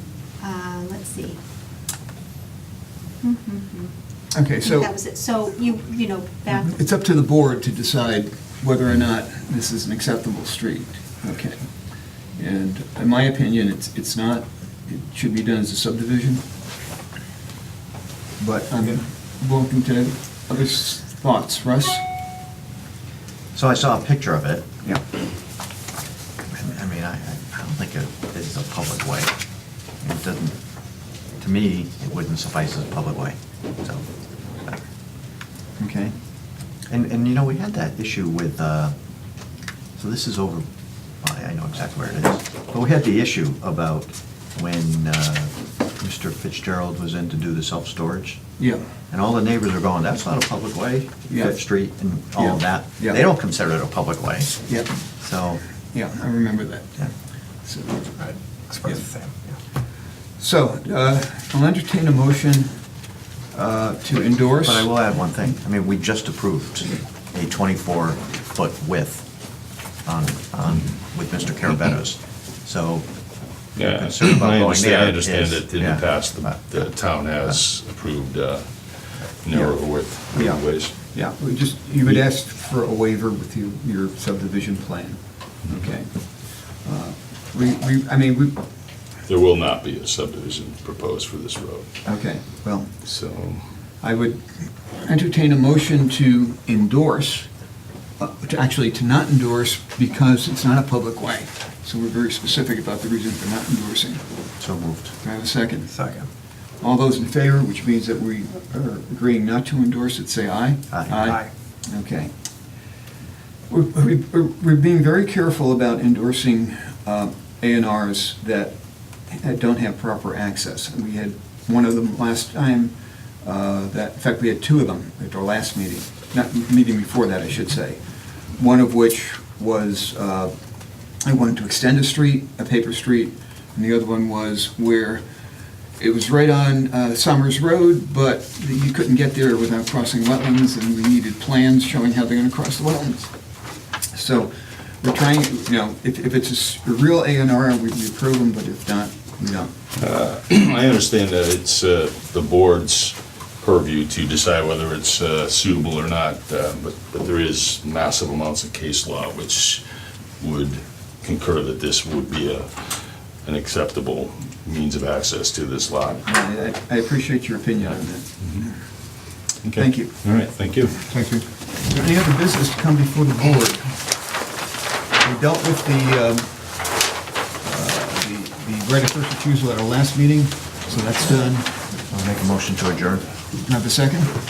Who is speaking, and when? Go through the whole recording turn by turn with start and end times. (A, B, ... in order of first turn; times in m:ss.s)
0:00.4-0:01.4 A
0:03.2-0:03.9 A
0:04.3-0:04.9 B
0:04.6-0:06.8 A
0:06.5-0:11.7 B
0:12.4-0:16.4 B
0:18.4-0:22.0 B
0:23.5-0:24.7 C
0:26.5-0:29.3 C
0:30.0-0:30.6 C
0:31.4-0:34.0 C
0:35.8-0:36.1 B
0:36.9-0:38.9 C
0:40.0-0:40.7 C
0:41.2-0:48.4 C
0:48.6-0:48.8 B
0:49.1-0:54.6 C
0:52.4-0:53.2 B
0:54.7-0:54.9 B
0:55.2-0:55.6 C
0:55.9-0:57.1 B
0:57.6-0:58.1 B
0:58.2-0:59.6 D
1:00.4-1:02.8 B
1:03.5-1:04.9 B
1:04.6-1:09.3 C
1:10.0-1:13.0 C
1:13.8-1:18.6 E
1:13.8-1:16.6 C
1:19.4-1:20.9 E
1:20.3-1:26.1 B
1:26.8-1:28.6 B
1:29.3-1:31.9 E
1:32.0-1:32.9 B
1:33.0-1:33.6 E
1:34.0-1:37.5 B
1:38.2-1:44.2 B
1:44.6-1:45.1 C
1:45.2-1:45.9 B
1:45.9-1:46.3 D
1:46.8-1:52.3 B
1:50.9-1:51.4 C
1:51.2-1:51.5 D
1:53.7-1:58.7 B
1:59.3-2:08.0 B
2:08.6-2:10.5 B
2:11.2-2:15.2 B
2:16.0-2:23.3 B
2:24.1-2:29.7 B
2:30.0-2:39.8 E
2:40.4-2:46.2 E
2:46.2-2:48.8 B
2:48.4-2:48.7 E
2:49.6-2:51.1 E
2:49.7-2:50.1 B
2:51.0-2:53.9 B
2:55.2-2:56.5 B
2:57.6-3:01.7 B
3:02.1-3:03.2 C
3:03.6-3:04.3 B